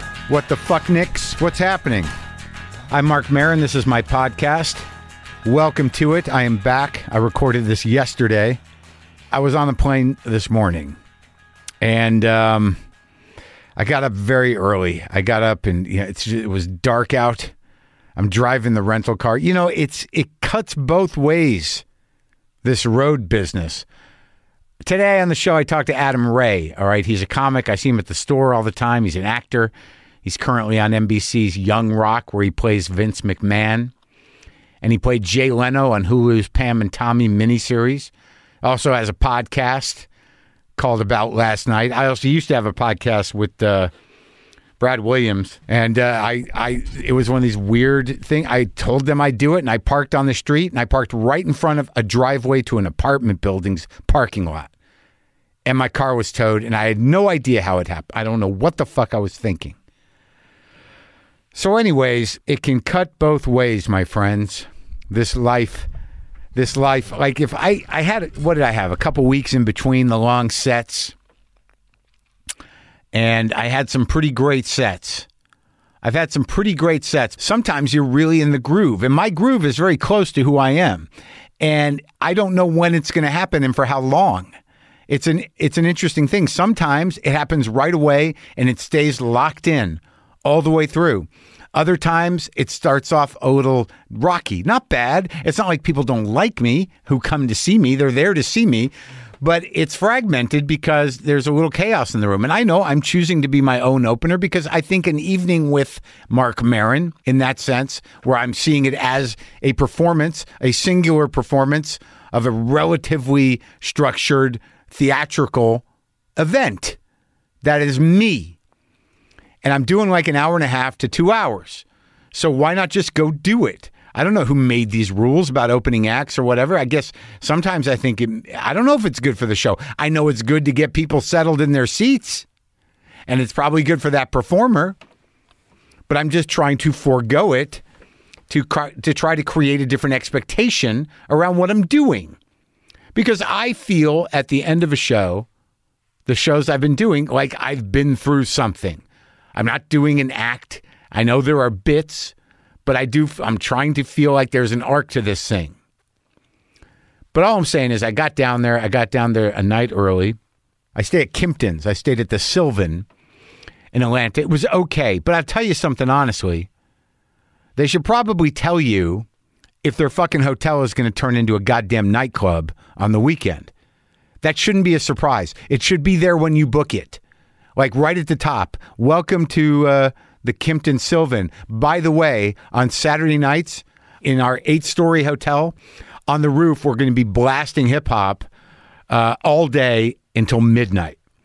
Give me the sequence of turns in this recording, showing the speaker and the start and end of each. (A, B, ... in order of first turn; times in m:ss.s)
0:00.3-0:02.1 A
0:02.9-0:04.8 A
0:05.4-0:08.6 A
0:09.3-0:11.0 A
0:11.8-0:12.8 A
0:13.8-0:17.5 A
0:18.2-0:21.8 A
0:22.6-0:23.9 A
0:24.8-0:29.7 A
0:30.2-0:33.9 A
0:34.8-0:38.1 A
0:38.6-0:40.1 A
0:40.8-0:43.9 A
0:44.8-0:54.7 A
0:55.6-0:59.8 A
1:01.5-1:05.9 A
1:06.6-1:11.2 A
1:13.1-1:15.3 A
1:16.0-1:21.1 A
1:21.6-1:24.5 A
1:25.1-1:55.8 A
1:56.4-1:57.0 A
1:57.6-1:58.6 A
1:59.6-2:12.5 A
2:13.3-2:15.0 A
2:16.1-2:17.8 A
2:18.5-2:22.4 A
2:23.2-2:25.5 A
2:26.3-2:29.0 A
2:29.6-2:32.4 A
2:32.9-2:35.8 A
2:37.3-2:40.4 A
2:41.0-2:43.1 A
2:43.9-2:46.7 A
2:47.8-2:49.3 A
2:49.8-2:53.7 A
2:54.4-2:57.2 A
2:57.8-3:05.8 A
3:06.3-3:08.5 A
3:09.1-3:11.2 A